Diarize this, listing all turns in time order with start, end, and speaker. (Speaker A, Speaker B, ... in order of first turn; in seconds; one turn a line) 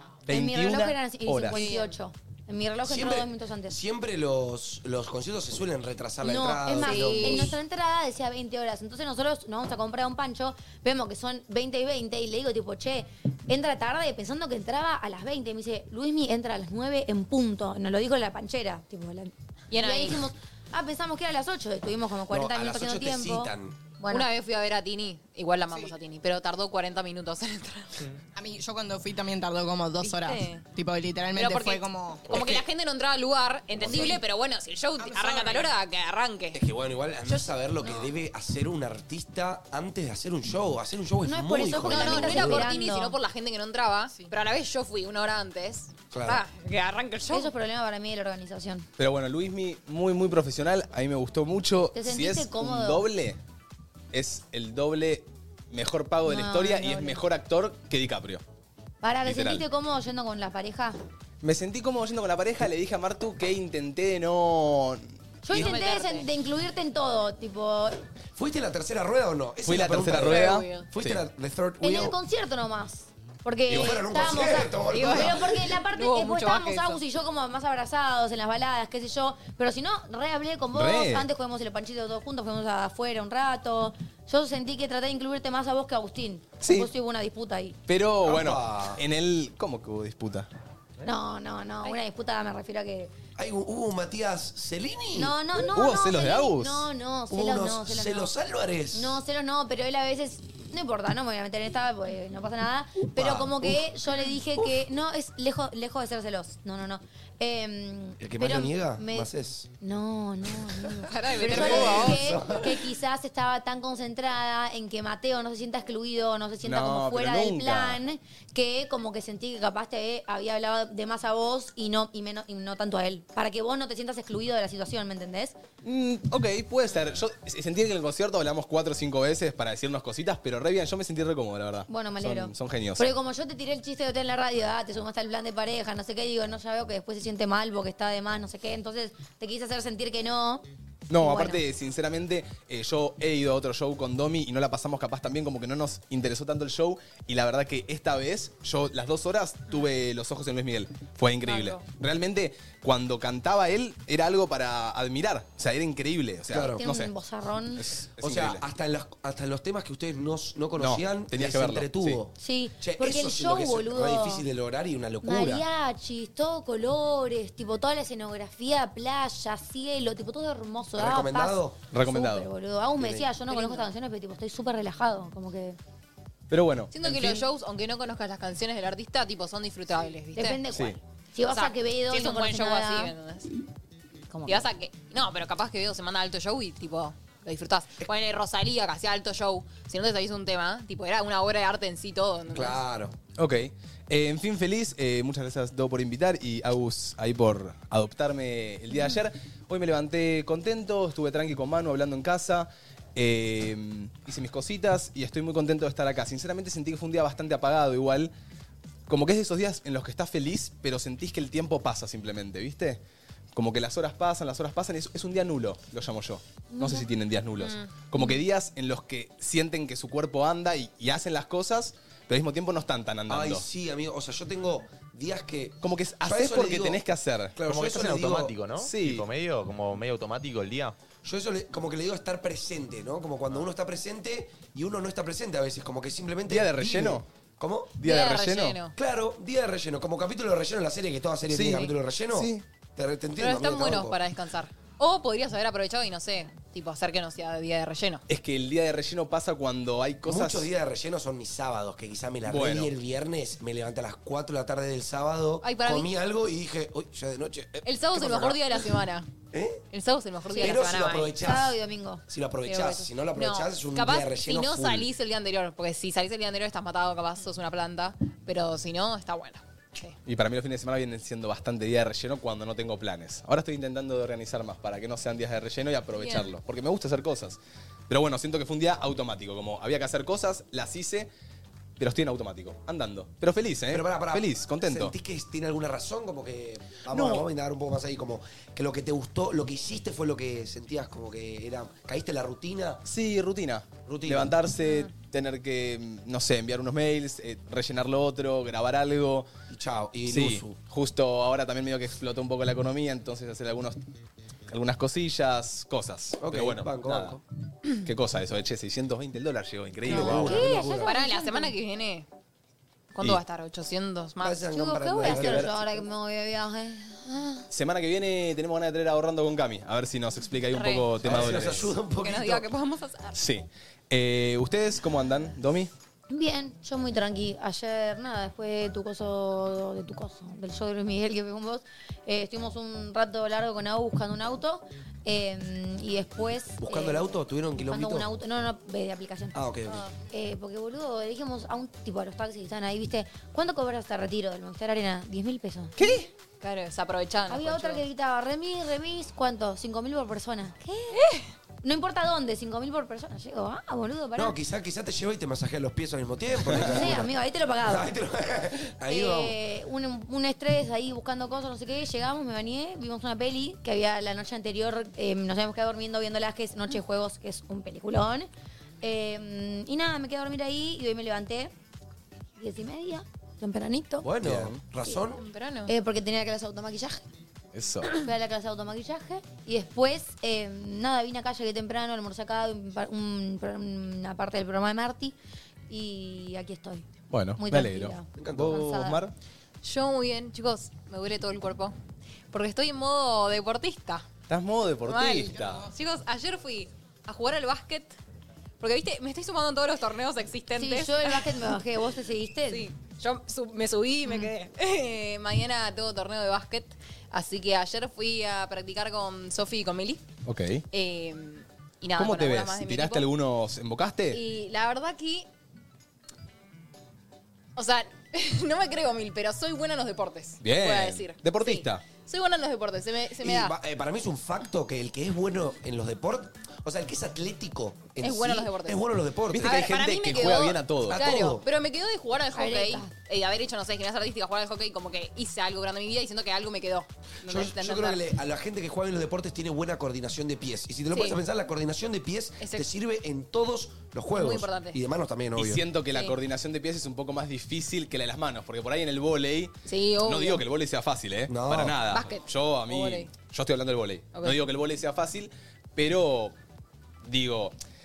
Speaker A: 0.2-1.6
Speaker B: 0.3-3.8
Speaker C: 1.5-2.0
Speaker D: 2.8-7.5
Speaker B: 6.2-24.3
Speaker C: 6.8-7.6
Speaker C: 19.7-20.3
Speaker D: 22.3-23.8
Speaker C: 24.1-28.0
Speaker E: 28.3-32.5
Speaker C: 30.0-30.6
Speaker C: 31.3-36.6
Speaker E: 35.0-35.7
Speaker D: 36.5-42.7
Speaker B: 37.8-38.1
Speaker B: 41.2-43.2
Speaker C: 41.8-47.5
Speaker D: 46.1-46.4
Speaker B: 47.3-48.9
Speaker A: 49.0-53.4
Speaker B: 51.9-53.1
Speaker A: 54.1-58.4
Speaker B: 56.2-57.2
Speaker B: 59.0-61.0
Speaker A: 59.2-59.6
Speaker A: 61.4-65.7
Speaker B: 65.4-68.0
Speaker C: 65.5-66.3
Speaker D: 68.4-72.2
Speaker A: 69.6-71.2
Speaker C: 70.1-70.9
Speaker B: 71.8-87.8
Speaker D: 73.7-75.7
Speaker C: 74.9-77.0
Speaker A: 80.7-81.3
Speaker A: 86.6-86.9
Speaker A: 87.9-90.5
Speaker D: 88.2-89.0
Speaker B: 91.0-93.1
Speaker D: 93.4-95.4
Speaker B: 95.1-98.3
Speaker A: 95.7-96.9
Speaker D: 97.3-99.2
Speaker B: 98.9-109.3
Speaker D: 103.1-103.9
Speaker D: 108.2-109.7
Speaker B: 109.8-125.5
Speaker C: 111.0-112.4
Speaker D: 111.4-112.8
Speaker A: 116.6-118.0
Speaker A: 125.8-133.1
Speaker B: 131.9-140.6
Speaker A: 141.1-157.1
Speaker B: 141.2-141.6
Speaker C: 151.4-151.8
Speaker D: 156.5-156.8
Speaker B: 156.8-157.9
Speaker A: 157.8-158.6
Speaker D: 158.2-165.6
Speaker A: 160.8-162.2
Speaker B: 162.4-164.4
Speaker B: 165.2-175.8
Speaker D: 171.0-171.8
Speaker A: 171.9-172.5
Speaker D: 173.0-173.3
Speaker C: 173.5-173.9
Speaker A: 176.5-177.4
Speaker C: 176.9-180.6
Speaker B: 180.3-183.1
Speaker A: 180.7-181.0
Speaker C: 181.5-183.5
Speaker B: 184.3-184.6
Speaker C: 184.4-192.8
Speaker D: 192.5-193.1
Speaker A: 193.4-208.3
Speaker A: 209.1-213.0
Speaker A: 213.5-223.6
Speaker B: 216.7-217.0
Speaker C: 217.6-218.2
Speaker D: 223.3-227.0
Speaker A: 225.8-227.8
Speaker D: 227.6-228.6
Speaker F: 227.6-231.0
Speaker A: 228.8-229.2
Speaker D: 231.2-237.9
Speaker A: 236.5-237.2
Speaker A: 238.0-238.8
Speaker C: 238.0-238.9
Speaker D: 239.0-244.2
Speaker A: 241.5-242.6
Speaker C: 243.4-248.2
Speaker A: 248.3-250.7
Speaker D: 250.2-258.8
Speaker A: 252.5-252.9
Speaker C: 255.6-256.1
Speaker C: 257.8-259.3
Speaker D: 259.5-259.8
Speaker C: 259.9-261.4
Speaker D: 260.6-261.8
Speaker B: 261.4-262.2
Speaker D: 262.3-265.1
Speaker C: 262.6-270.2
Speaker A: 270.2-277.6
Speaker C: 276.2-276.5
Speaker A: 278.1-281.3
Speaker A: 282.0-285.1
Speaker D: 283.9-293.0
Speaker A: 287.1-287.5
Speaker A: 293.0-299.5
Speaker D: 294.0-294.5
Speaker D: 299.7-300.8
Speaker A: 300.2-304.0
Speaker A: 304.7-307.4
Speaker D: 306.4-307.4
Speaker A: 308.0-310.7
Speaker D: 310.0-311.1
Speaker B: 310.1-311.7
Speaker C: 311.0-312.3
Speaker C: 313.1-314.8
Speaker D: 314.4-315.8
Speaker B: 314.7-317.7
Speaker A: 315.2-315.7
Speaker A: 317.7-321.9
Speaker C: 320.7-321.2
Speaker D: 321.2-322.6
Speaker C: 322.2-323.4
Speaker A: 323.3-325.9
Speaker B: 326.3-339.6
Speaker D: 336.8-338.3
Speaker D: 339.5-340.1
Speaker B: 340.1-346.0
Speaker A: 346.0-346.3
Speaker C: 346.0-348.0
Speaker B: 347.5-351.2
Speaker C: 351.1-351.5
Speaker B: 351.8-354.6
Speaker D: 354.4-357.3
Speaker A: 356.7-357.1
Speaker B: 356.8-358.1
Speaker D: 357.8-359.6
Speaker B: 359.1-368.5
Speaker B: 369.0-371.7
Speaker B: 372.6-374.2
Speaker D: 374.2-375.4
Speaker A: 374.4-374.8
Speaker C: 375.3-375.9
Speaker B: 375.9-377.2
Speaker A: 377.7-378.2
Speaker B: 378.1-385.4
Speaker B: 385.9-389.2
Speaker A: 387.3-389.3
Speaker D: 388.3-388.8
Speaker C: 389.8-391.9
Speaker C: 392.5-394.3
Speaker A: 394.5-395.9
Speaker C: 395.0-398.1
Speaker C: 398.8-401.6
Speaker B: 400.8-402.9
Speaker C: 402.7-410.2
Speaker A: 410.5-410.8
Speaker C: 410.9-413.3
Speaker A: 412.1-414.4
Speaker C: 414.3-415.5
Speaker C: 417.8-423.8
Speaker A: 420.6-422.0
Speaker D: 423.4-429.8
Speaker C: 428.2-429.0
Speaker A: 429.5-431.2
Speaker C: 429.6-438.2
Speaker D: 431.1-431.6
Speaker B: 432.5-433.1
Speaker D: 437.4-445.8
Speaker C: 441.1-441.4
Speaker C: 442.6-442.9
Speaker C: 444.3-445.0
Speaker A: 445.6-456.5
Speaker C: 446.1-446.4
Speaker C: 449.9-450.6
Speaker D: 451.5-452.0
Speaker C: 452.1-453.3
Speaker C: 454.3-454.6
Speaker A: 457.2-457.8